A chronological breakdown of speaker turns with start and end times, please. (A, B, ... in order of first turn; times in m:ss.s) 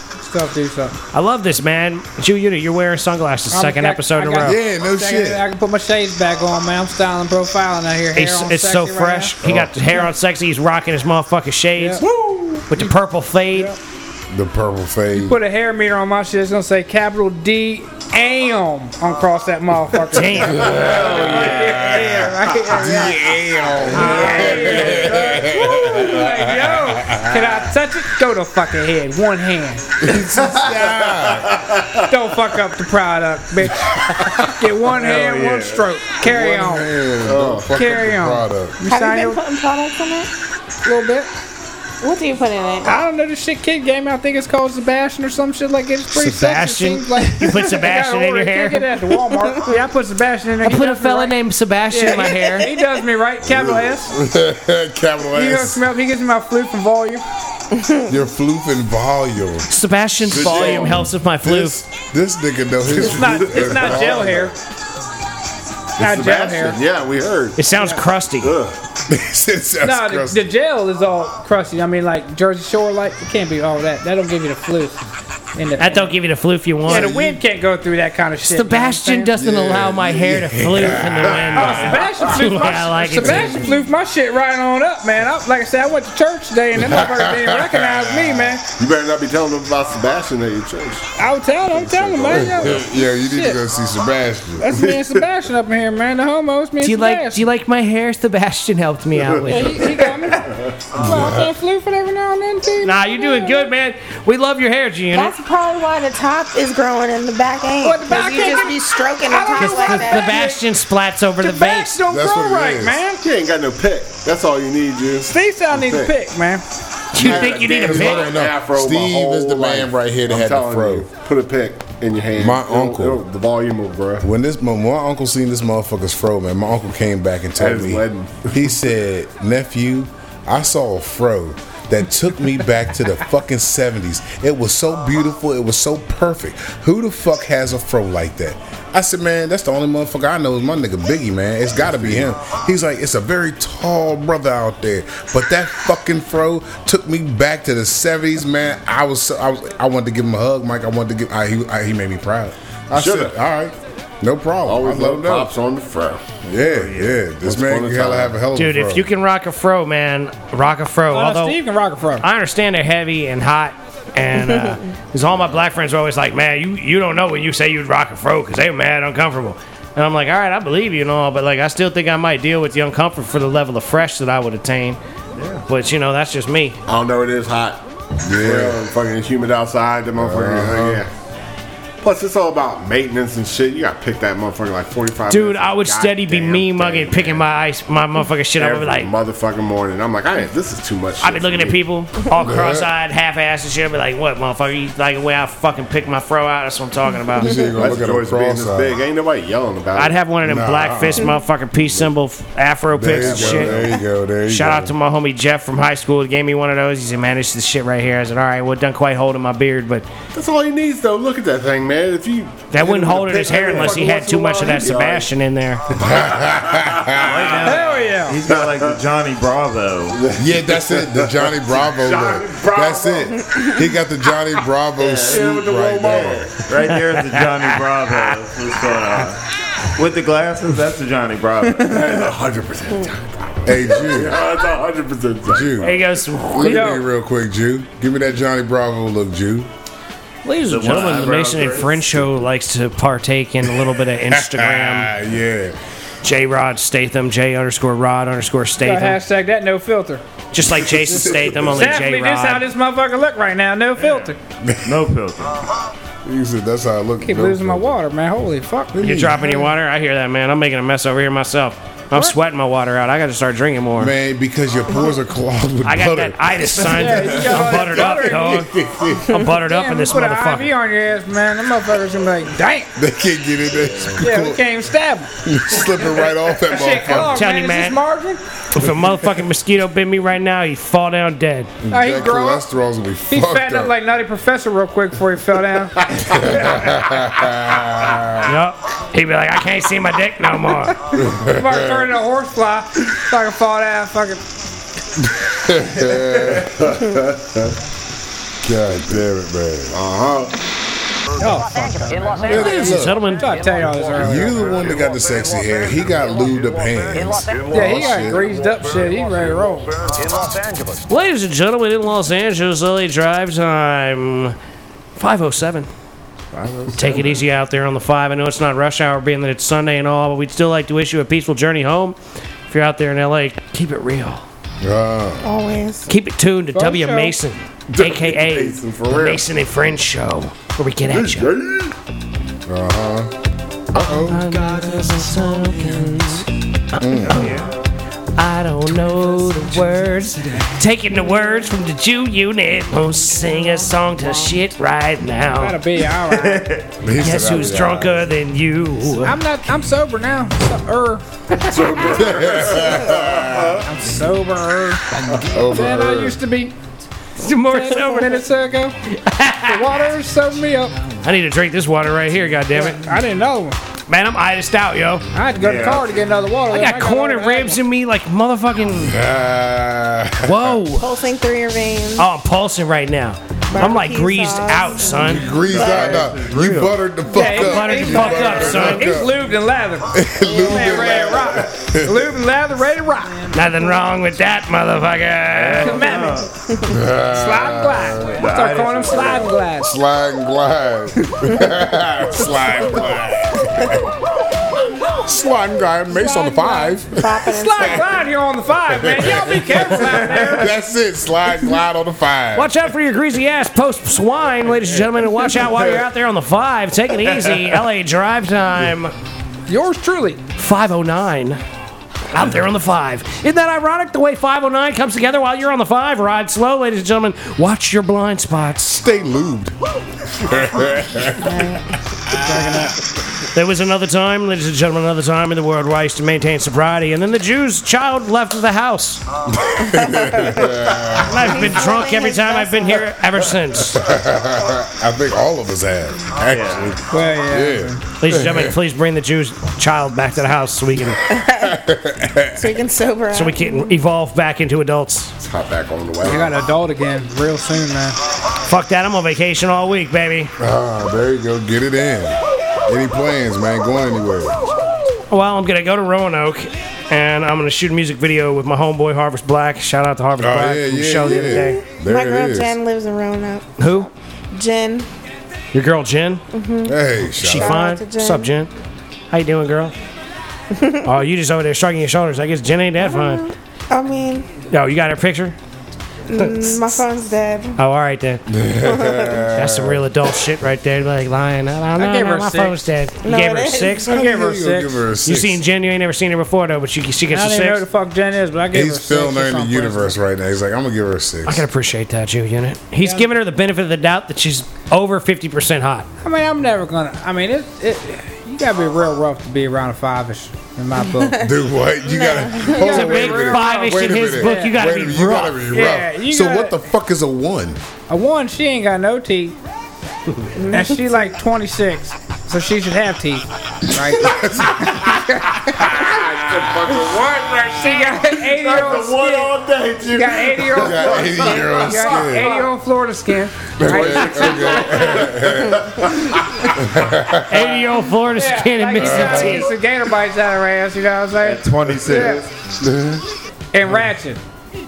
0:00.1-0:01.0 A
0:01.1-0:04.6 B
0:03.5-0:09.4 A
0:04.4-0:05.4 C
0:08.1-0:12.0 B
0:09.4-0:09.7 C
0:11.8-0:12.0 A
0:12.2-0:12.6 D
0:12.7-0:13.7 B
0:14.3-0:15.4 C
0:15.1-0:29.9 A
0:20.1-0:20.9 B
0:20.5-0:27.7 C
0:20.8-0:22.0 E
0:30.0-0:31.6 C
0:31.1-0:32.1 D
0:32.1-0:36.9 A
0:34.9-0:35.8 E
0:36.2-0:38.8 C
0:37.2-0:37.7 D
0:37.7-0:39.4 A
0:38.9-0:40.3 F
0:40.8-0:41.3 A
0:42.0-0:43.0 F
0:42.8-0:51.4 A
0:46.1-0:48.8 B
0:50.6-0:52.7 B
0:51.9-0:54.1 A
0:53.5-0:55.8 C
0:55.3-0:57.2 A
0:57.7-0:58.0 F
0:58.1-0:59.7 C
0:59.7-1:01.8 B
1:00.2-1:01.1 D
1:00.3-1:04.5 C
1:03.0-1:04.5 A
1:03.0-1:04.5 D
1:06.0-1:07.6 D
1:06.0-1:06.8 A
1:07.6-1:08.5 B
1:07.7-1:08.0 A
1:08.4-1:08.8 D
1:09.1-1:10.5 C
1:09.8-1:15.0 A
1:15.5-1:16.1 A
1:15.8-1:17.1 B
1:16.9-1:19.3 A
1:16.9-1:17.4 C
1:18.4-1:23.8 B
1:19.4-1:21.8 C
1:21.6-1:28.6 A
1:26.8-1:28.5 C
1:28.8-1:31.1 D
1:31.2-1:33.6 A
1:31.7-1:32.8 D
1:32.3-1:34.7 C
1:34.6-1:37.4 A
1:34.7-1:35.2 D
1:36.8-1:40.1 B
1:39.4-1:43.7 A
1:41.0-1:41.5 C
1:42.8-1:45.4 B
1:45.1-1:50.4 F
1:47.8-1:50.6 A
1:49.6-1:52.0 B
1:51.4-1:53.2 A
1:52.1-1:53.0 C
1:53.2-1:56.1 D
1:55.3-1:56.6 A
1:57.1-1:58.3 B
1:57.2-2:04.2 D
1:57.2-2:01.1 C
2:02.4-2:03.2 C
2:04.2-2:35.5 C
2:07.6-2:08.6 D
2:21.8-2:22.2 D
2:32.9-2:33.3 D
2:34.6-2:36.3 D
2:36.4-2:39.1 C
2:36.5-2:37.2 E
2:37.4-2:38.4 D
2:38.5-2:41.6 B
2:41.1-2:42.2 A
2:42.2-2:55.0 B
2:55.3-2:55.6 E
2:55.7-2:56.8 B
2:56.9-2:57.8 D
2:58.2-2:58.8 C
2:58.4-3:01.1 D
3:00.2-3:01.0 C
3:02.0-3:07.5 D
3:05.3-3:09.1 B
3:08.6-3:11.8 D
3:11.2-3:17.5 B
3:12.4-3:12.9 C
3:17.4-3:19.0 C
3:17.4-3:17.8 F
3:17.8-3:20.2 D
3:20.0-3:23.8 B
3:20.4-3:21.3 C
3:22.9-3:24.9 C
3:23.0-3:24.0 D
3:24.5-3:30.1 B
3:30.3-3:35.3 D
3:32.7-3:35.8 B
3:35.9-3:37.3 D
3:35.9-3:37.7 C
3:37.1-3:40.2 E
3:37.6-3:38.4 A
3:38.4-3:38.9 D
3:40.1-3:43.5 D
3:40.4-3:46.5 C
3:45.0-3:46.6 D
3:46.6-3:52.0 E
3:51.8-3:55.9 D
3:53.6-3:54.4 C
3:55.5-3:56.0 C
3:55.8-3:56.9 B
3:56.5-3:59.7 C
3:56.6-3:57.0 A
4:00.4-4:05.1 B
4:00.7-4:02.3 E
4:03.6-4:05.8 C
4:06.2-4:09.2 B
4:08.8-4:10.2 A
4:10.5-4:12.7 B
4:10.6-4:11.8 C
4:11.6-4:14.4 A
4:14.6-4:14.9 C
4:14.8-4:15.5 E
4:16.2-4:17.9 C
4:17.2-4:19.0 A
4:18.9-4:19.7 C
4:19.0-4:24.1 B
4:24.0-4:29.4 C
4:25.8-4:28.7 B
4:26.8-4:28.7 A
4:29.3-4:30.7 B
4:29.5-4:32.9 A
4:33.0-4:34.6 C
4:34.2-4:35.3 A
4:35.4-4:37.4 C
4:36.6-4:38.4 A
4:37.1-4:38.0 B
4:38.7-4:41.7 B
4:41.8-4:43.9 C
4:41.9-4:42.6 A
4:43.3-4:46.0 A
4:46.1-4:48.5 C
4:48.4-4:51.0 B
4:51.1-4:52.1 C
4:51.4-4:54.4 A
4:55.2-4:57.2 C
4:58.6-5:00.0 C
4:59.9-5:00.5 D
5:01.4-5:04.6 A
5:02.4-5:03.3 C
5:02.4-5:03.5 B
5:04.2-5:08.5 C
5:07.7-5:10.0 A
5:11.1-5:14.6 B
5:15.2-5:15.9 B
5:16.5-5:17.4 D
5:16.9-5:22.2 B
5:22.7-5:24.4 B
5:24.8-5:25.4 C
5:25.4-5:26.1 F
5:26.1-5:31.5 B
5:26.7-5:27.3 A
5:27.9-5:29.4 D
5:31.1-5:32.0 D
5:32.7-5:33.3 C
5:33.9-5:34.5 C
5:34.0-5:37.7 B
5:37.0-5:37.4 C
5:37.3-5:37.7 E
5:38.4-5:46.0 B
5:45.5-5:46.8 A
5:46.3-5:46.8 E
5:47.0-5:48.3 C
5:47.1-5:49.4 B
5:49.2-5:51.8 A
5:51.6-5:53.9 D
5:52.1-5:53.8 C
5:53.8-5:56.7 A
5:55.4-5:56.4 C
5:57.4-5:58.4 B
5:57.7-5:58.9 A
5:59.0-5:59.9 B
5:59.6-6:01.0 A
6:01.2-6:03.0 B
6:02.7-6:03.8 A
6:04.1-6:05.2 B
6:05.3-6:07.8 A
6:05.6-6:06.2 E
6:06.7-6:09.2 B
6:09.0-6:10.8 C
6:10.4-6:11.1 B
6:11.0-6:12.3 F
6:12.2-6:15.5 B
6:13.7-6:16.2 F
6:15.2-6:19.4 C
6:15.6-6:17.0 E
6:17.3-6:23.5 A
6:17.3-6:19.1 B
6:20.1-6:22.3 C
6:20.8-6:21.5 D
6:23.5-6:26.3 B
6:25.5-6:26.5 E
6:25.8-6:26.5 A
6:26.9-6:28.4 C
6:27.2-6:29.9 A
6:28.4-6:29.5 E
6:29.8-6:34.1 C
6:35.0-6:37.4 C
6:36.1-6:40.7 A
6:37.1-6:38.0 F
6:38.9-6:42.7 C
6:42.5-6:49.1 B
6:49.7-6:50.4 A
6:50.6-6:51.6 B
6:52.3-6:59.0 B
6:58.9-6:59.7 C
7:00.3-7:01.8 C
7:01.4-7:01.8 F
7:02.3-7:02.8 C
7:02.3-7:03.0 A
7:03.5-7:09.2 B
7:09.5-7:11.8 C
7:11.2-7:14.1 B
7:11.3-7:13.1 F
7:13.8-7:18.8 C
7:16.5-7:16.9 E
7:17.1-7:18.0 A
7:18.2-7:21.2 B
7:21.3-7:21.8 F
7:21.3-7:22.7 C
7:22.5-7:23.9 F
7:23.3-7:25.3 B
7:25.4-7:26.6 D
7:26.2-7:28.2 A
7:28.6-7:30.5 B
7:30.6-7:34.6 C
7:35.3-7:41.8 B
7:40.4-7:42.8 C
7:42.0-7:45.1 F
7:43.8-7:44.1 B
7:45.7-7:46.4 B
7:46.5-7:47.0 F
7:46.8-7:47.8 C
7:47.4-7:48.7 B
7:47.5-7:48.5 F
7:49.3-7:49.9 B
7:50.7-7:51.1 F
7:51.0-7:53.4 B
7:53.0-7:54.5 F
7:54.7-7:55.6 B
7:56.3-7:57.8 F
7:56.3-7:57.0 B
7:57.8-7:58.4 B
7:58.5-8:00.1 C
7:58.8-7:59.4 F
7:59.5-8:04.1 B
8:02.0-8:02.8 A
8:03.2-8:04.1 F
8:04.1-8:05.0 A
8:04.1-8:05.6 C
8:05.2-8:07.8 B
8:07.3-8:10.1 A
8:08.7-8:11.6 C
8:11.4-8:16.1 B
8:13.0-8:13.3 A
8:16.2-8:21.4 A
8:21.2-8:21.5 F
8:21.4-8:27.8 C
8:22.0-8:23.1 F
8:22.8-8:24.7 A
8:22.8-8:25.6 B
8:25.7-8:26.7 A
8:28.1-8:29.6 A
8:30.6-8:30.9 F
8:30.7-8:35.9 A
8:34.1-8:36.9 C
8:36.0-8:42.7 D
8:37.6-8:44.9 A
8:40.7-8:42.6 C
8:43.8-8:47.8 C
8:43.9-8:46.4 D
8:47.5-8:49.7 B
8:48.3-8:52.4 A
8:49.0-8:49.7 C
8:51.4-8:52.5 E
8:52.1-8:52.4 D
8:52.8-8:53.2 C
8:53.7-8:54.4 A